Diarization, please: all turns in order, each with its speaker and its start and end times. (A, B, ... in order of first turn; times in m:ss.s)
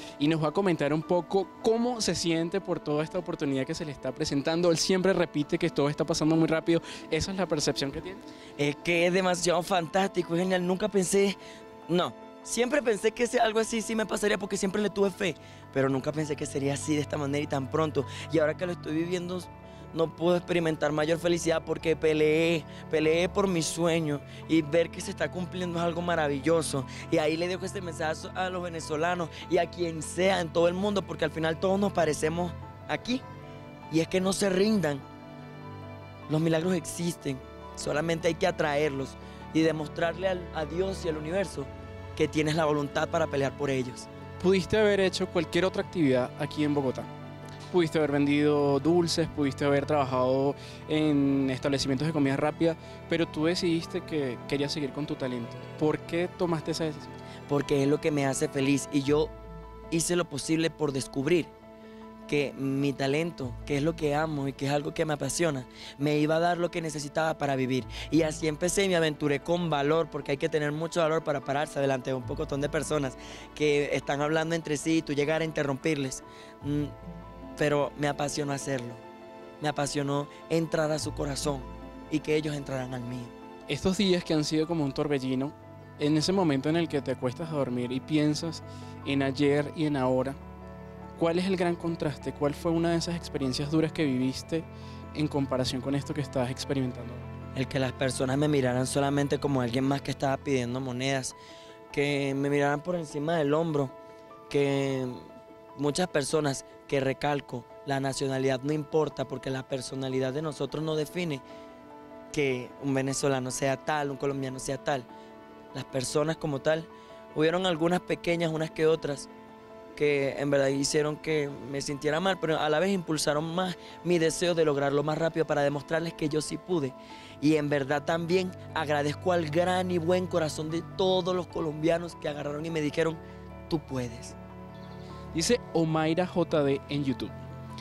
0:00.2-0:08.2 A
0:08.6-0:33.2 B
0:33.9-0:35.0 B
0:36.3-0:44.1 B
0:44.4-0:47.1 A
0:47.7-0:57.2 A
0:57.5-0:59.3 B
0:59.9-1:01.5 B
1:02.3-1:16.9 B
1:17.6-1:19.0 B
1:19.6-1:23.3 B
1:23.7-1:30.4 A
1:31.2-1:37.3 A
1:37.6-1:41.4 B
1:41.9-1:43.9 B
1:44.5-1:45.2 B
1:45.8-1:51.4 B
1:52.3-1:55.1 B
1:55.7-1:59.3 B
2:00.0-2:14.4 B
2:15.3-2:17.3 A